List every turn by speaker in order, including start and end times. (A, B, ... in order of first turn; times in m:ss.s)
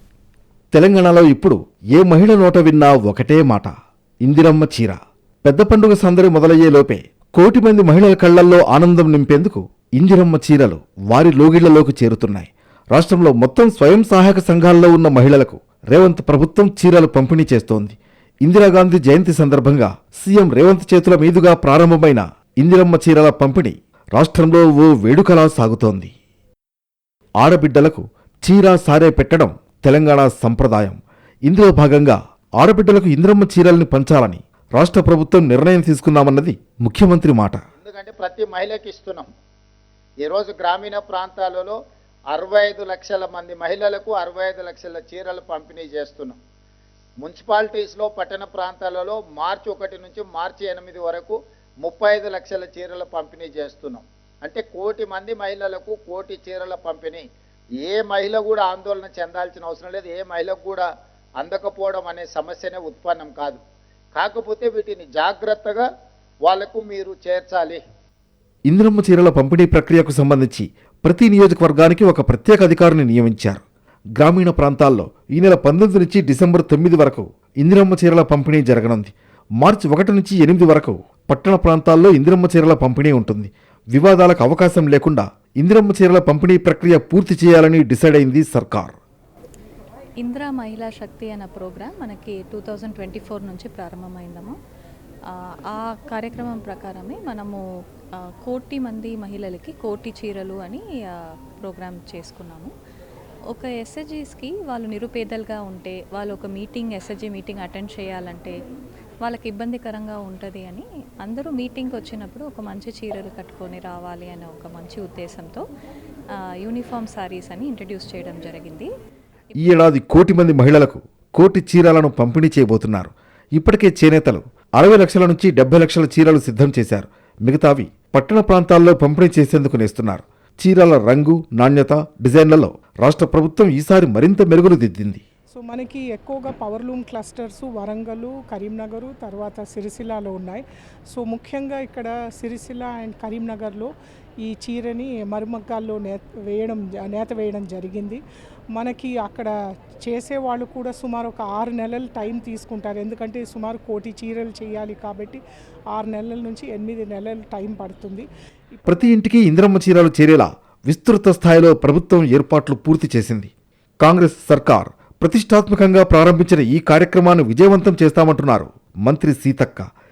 0:00.7-0:03.7 A
0:04.2-0:26.1 A
0:27.4-0:37.6 A
0:37.8-0:39.3 B
0:40.2-0:41.8 B
0:42.3-0:46.4 B
0:47.2-0:57.2 B
0:57.8-1:00.9 B
1:01.4-1:03.6 B
1:04.2-1:05.9 B
1:06.4-1:07.8 B
1:08.7-1:13.6 A
1:14.2-1:29.0 A
1:30.2-1:34.6 C
1:35.7-1:37.6 C
1:38.4-1:40.8 C
1:41.6-1:42.7 C
1:43.5-1:48.6 C
1:49.2-1:55.6 C
1:56.6-1:58.9 C
1:59.6-2:15.2 A
2:15.5-2:28.2 D
2:28.7-2:29.5 D
2:30.0-2:35.4 D
2:35.9-2:39.1 D
2:38.9-2:43.5 A
2:44.0-2:49.9 A